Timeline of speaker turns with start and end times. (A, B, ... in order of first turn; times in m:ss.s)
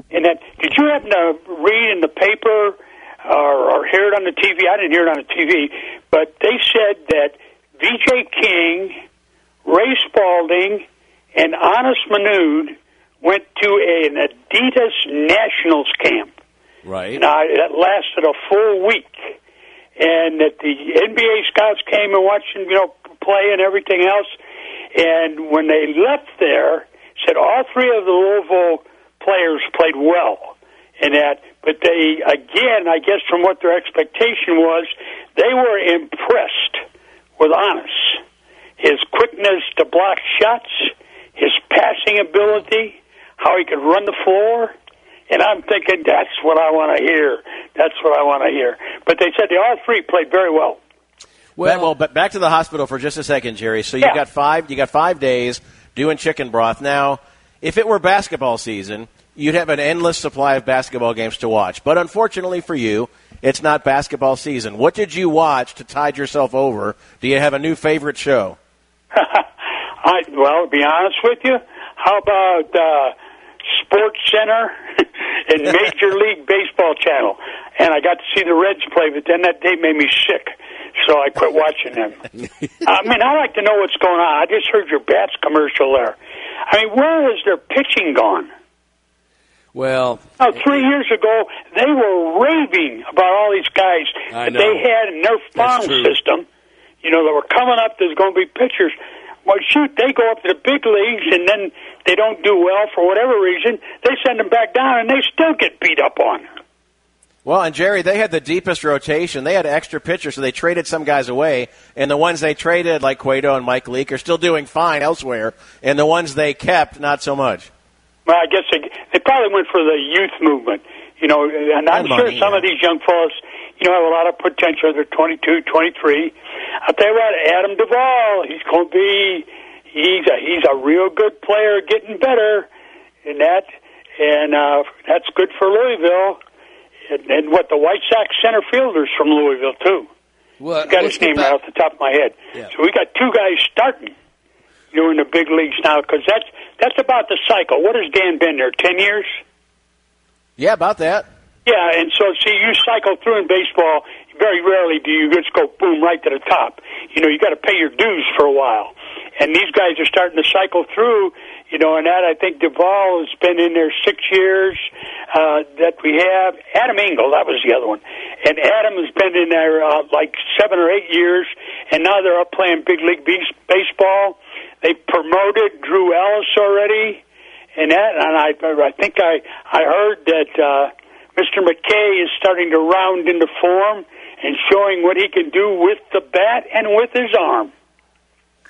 0:00.1-0:09.0 A
0:09.7-0:16.3 A
0:16.8-0:17.2 B
0:17.1-0:19.3 A
0:20.0-0:24.3 A
0:24.9-0:36.8 A
0:37.4-0:38.2 A
0:38.8-0:44.7 A
0:45.3-0:50.8 A
0:51.6-0:51.9 B
0:51.6-1:08.6 C
1:09.1-1:09.5 A
1:10.0-1:13.1 A
1:13.7-1:22.2 A
1:22.8-1:26.2 A
1:26.7-1:28.5 A
1:29.7-1:30.8 B
1:30.4-1:36.4 A
1:34.3-1:34.8 B
1:35.6-1:36.2 B
1:37.0-1:39.0 A
1:39.4-1:46.5 A
1:47.4-1:57.7 C
1:58.3-2:12.7 A
2:01.9-2:02.7 C
2:13.2-2:16.4 A
2:17.1-2:20.1 A
2:20.6-2:21.6 B
2:20.8-2:24.1 A
2:24.9-2:29.3 A
2:30.6-2:31.3 C
2:31.6-2:57.2 A
2:57.8-3:07.7 A